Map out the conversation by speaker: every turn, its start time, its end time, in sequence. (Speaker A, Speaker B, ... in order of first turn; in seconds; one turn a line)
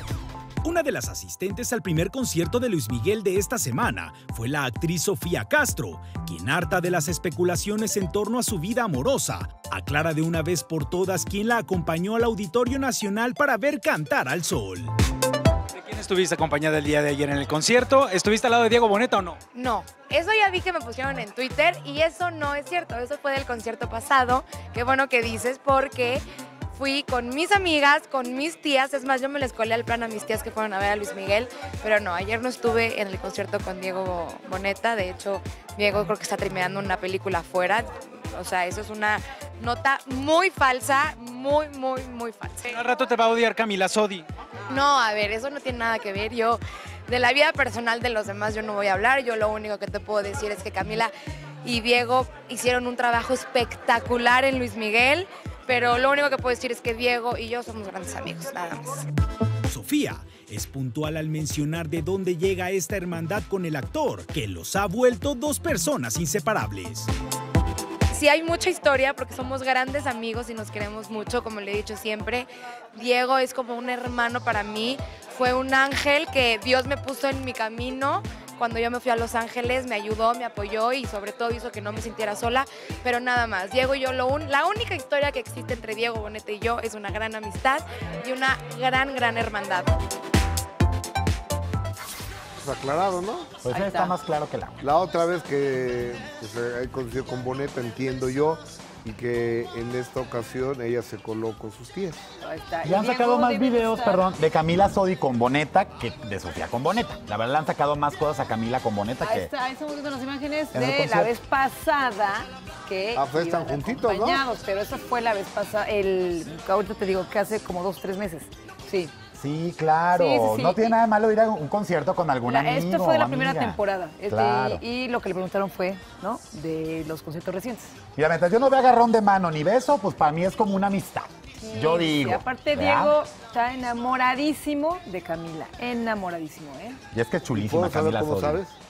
Speaker A: 0.6-14.9
Speaker B: 15.7-19.4
Speaker C: 19.5-26.2
Speaker C: 26.8-42.8
Speaker B: 42.7-44.3
Speaker C: 44.7-51.1
Speaker C: 51.6-59.1
Speaker A: 59.7-67.1
Speaker C: 68.1-89.9
Speaker D: 92.6-93.5
Speaker E: 93.6-94.8
Speaker F: 93.7-94.1
Speaker D: 94.8-102.2
Speaker F: 102.4-104.3
Speaker E: 102.8-109.5
Speaker F: 109.2-119.1
Speaker E: 110.7-111.3
Speaker D: 113.2-114.4
Speaker E: 119.3-124.8
Speaker F: 120.1-121.0
Speaker F: 122.4-127.9
Speaker E: 128.2-133.2
Speaker F: 131.6-137.0
Speaker E: 137.1-138.6
Speaker D: 137.5-138.7